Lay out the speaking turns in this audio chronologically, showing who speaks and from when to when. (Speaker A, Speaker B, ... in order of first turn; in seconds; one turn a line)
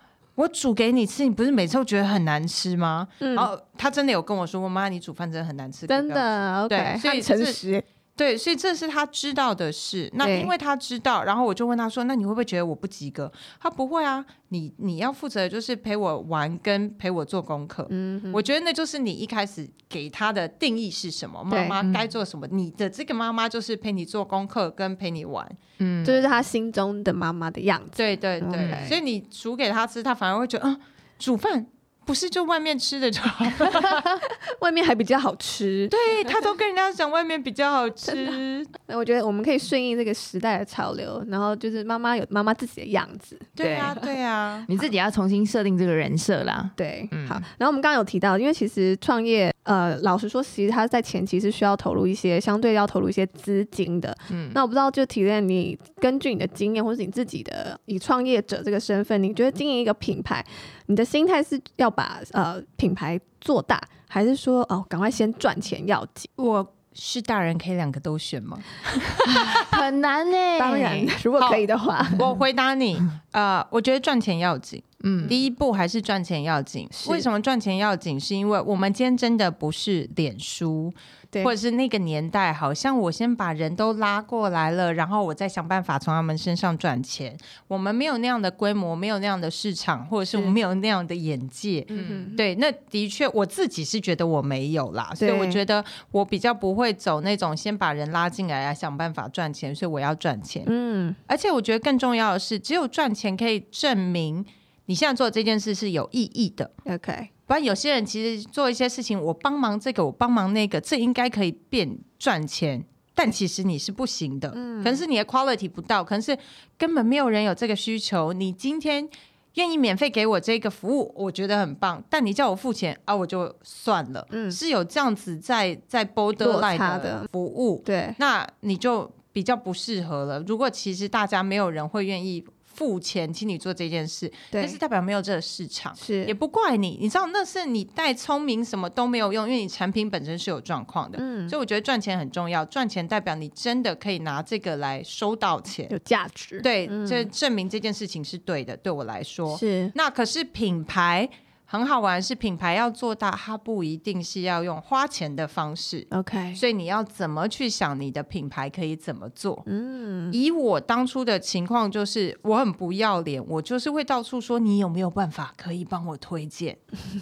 Speaker A: 0.4-7.6
Speaker B: 3.2-3.5
Speaker B: 5.9-7.8
Speaker A: 8.2-25.6
Speaker B: 10.2-10.5
Speaker B: 17.9-18.4
Speaker B: 21.5-21.8
Speaker C: 21.8-22.1
Speaker C: 25.8-26.2
Speaker B: 26.0-29.0
Speaker A: 27.9-34.2
Speaker C: 28.6-28.9
Speaker B: 33.7-35.9
Speaker A: 35.9-38.7
Speaker B: 38.9-44.0
Speaker A: 43.6-44.7
Speaker C: 44.7-47.4
Speaker B: 46.8-66.3
Speaker C: 54.3-54.6
Speaker A: 66.4-69.8
Speaker C: 69.2-71.1
Speaker B: 70.6-72.3
Speaker A: 71.4-100.7
Speaker C: 75.0-75.3
Speaker B: 76.9-77.3
Speaker B: 91.9-92.4
Speaker C: 91.9-92.3
Speaker B: 95.2-95.6
Speaker B: 100.7-101.2
Speaker A: 101.3-106.7
Speaker B: 106.8-107.3
Speaker A: 107.5-145.9
Speaker B: 114.5-115.0
Speaker B: 124.3-124.6
Speaker B: 126.4-127.3
Speaker B: 127.8-128.2
Speaker B: 134.5-134.8
Speaker B: 136.0-136.3
Speaker B: 141.2-141.6
Speaker B: 145.9-147.3
Speaker A: 146.6-159.7
Speaker B: 149.5-149.9
Speaker B: 156.1-156.6
Speaker B: 159.7-160.4
Speaker A: 160.3-166.8